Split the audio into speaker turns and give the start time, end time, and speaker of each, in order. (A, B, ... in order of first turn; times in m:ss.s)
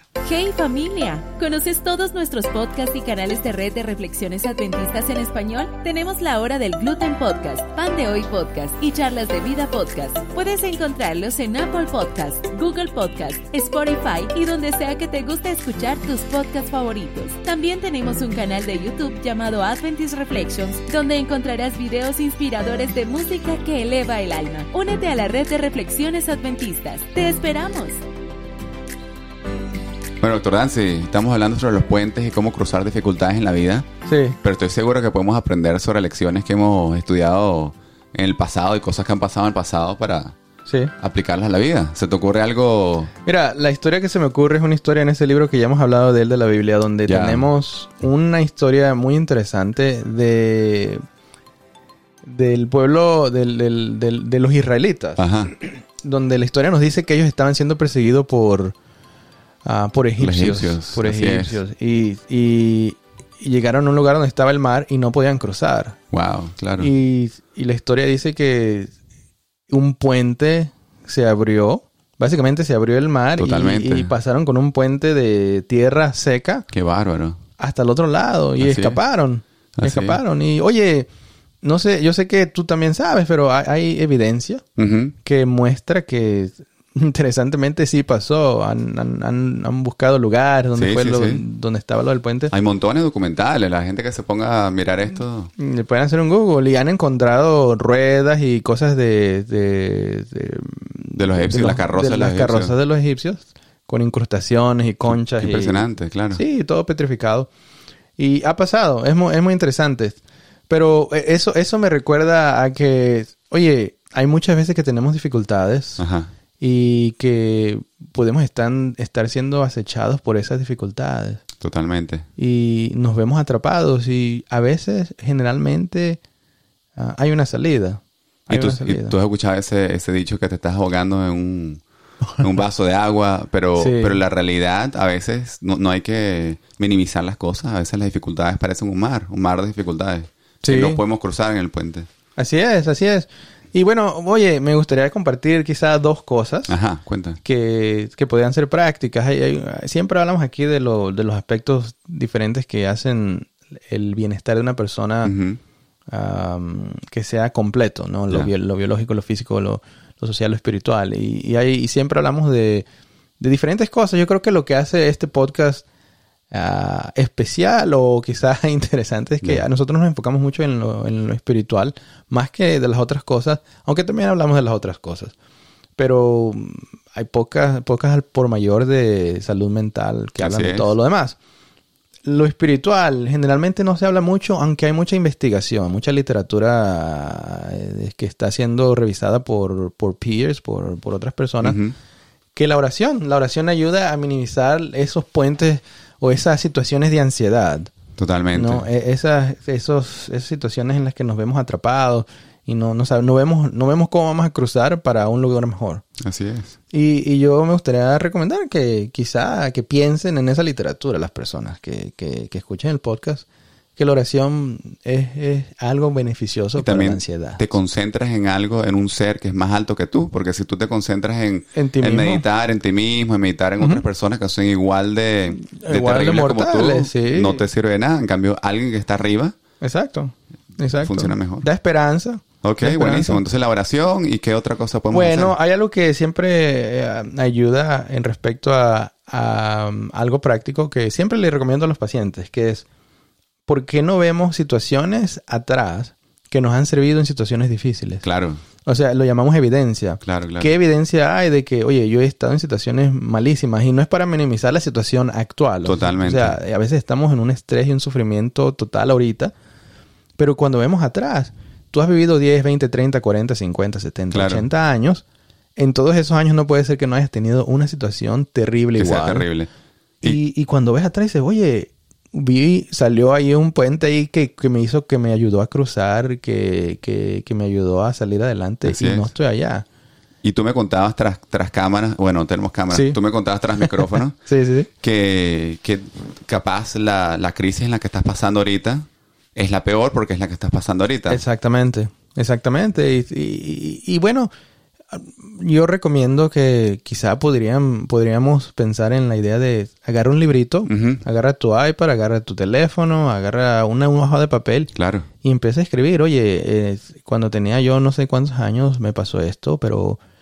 0:00.2-0:28.0 A
0:30.2-0:33.9 B
0:34.0-0:34.4 C
0:34.4-0:40.4 B
0:40.6-0:40.9 C
0:41.0-0:43.1 B
0:43.2-0:51.0 C
0:47.0-0:47.5 B
0:52.2-0:58.7 C
0:55.2-0:55.5 B
0:59.6-1:06.0 C
1:00.2-1:01.6 B
1:06.1-1:06.9 B
1:06.8-1:08.9 C
1:09.7-1:16.7 C
1:13.4-1:14.1 B
1:16.7-1:17.4 B
1:17.6-1:21.1 C
1:18.6-1:19.0 B
1:19.8-1:20.2 B
1:21.6-1:24.6 C
1:24.8-1:25.2 B
1:25.2-1:32.5 C
1:30.7-1:31.4 B
1:32.5-1:35.5 B
1:35.6-1:47.5 C
1:41.2-1:42.8 B
1:45.1-1:46.4 B
1:48.2-1:56.0 C
1:56.0-1:56.3 B
1:56.6-2:01.4 C
2:01.6-2:02.2 B
2:02.4-2:06.2 C
2:07.0-2:09.1 C
2:08.5-2:11.8 B
2:12.4-2:22.1 B
2:13.8-2:14.2 C
2:20.6-2:21.0 C
2:22.4-2:26.7 C
2:26.7-2:27.4 B
2:27.4-2:35.3 C
2:35.2-2:35.6 B
2:36.1-2:42.8 C
2:43.4-2:45.8 C
2:46.5-2:55.3 C
2:56.0-3:01.4 C
3:00.4-3:00.9 B
3:02.2-3:11.8 C
3:11.6-3:11.9 B
3:12.5-3:17.9 C
3:18.2-3:18.9 B
3:18.5-3:26.0 C
3:26.2-3:26.7 B
3:26.9-3:37.7 C
3:36.8-3:49.5 B
3:41.7-3:42.4 C
3:45.6-3:47.6 C
3:49.8-3:53.4 C
3:51.0-3:51.7 B
3:52.6-3:55.6 B
3:55.1-4:02.8 C
4:03.6-4:08.2 C
4:08.2-4:08.6 B
4:08.8-4:19.5 C
4:10.2-4:10.7 B
4:15.8-4:16.6 B
4:20.4-4:25.2 C
4:24.3-4:24.6 B
4:25.8-4:29.5 C
4:28.9-4:29.7 B
4:30.2-4:39.8 C
4:38.8-4:39.3 B
4:40.4-4:44.4 B
4:42.9-4:43.2 C
4:43.8-4:44.9 C
4:45.0-4:51.4 B
4:51.3-4:54.5 C
4:55.1-5:10.2 C
5:00.9-5:01.2 B
5:04.9-5:05.3 B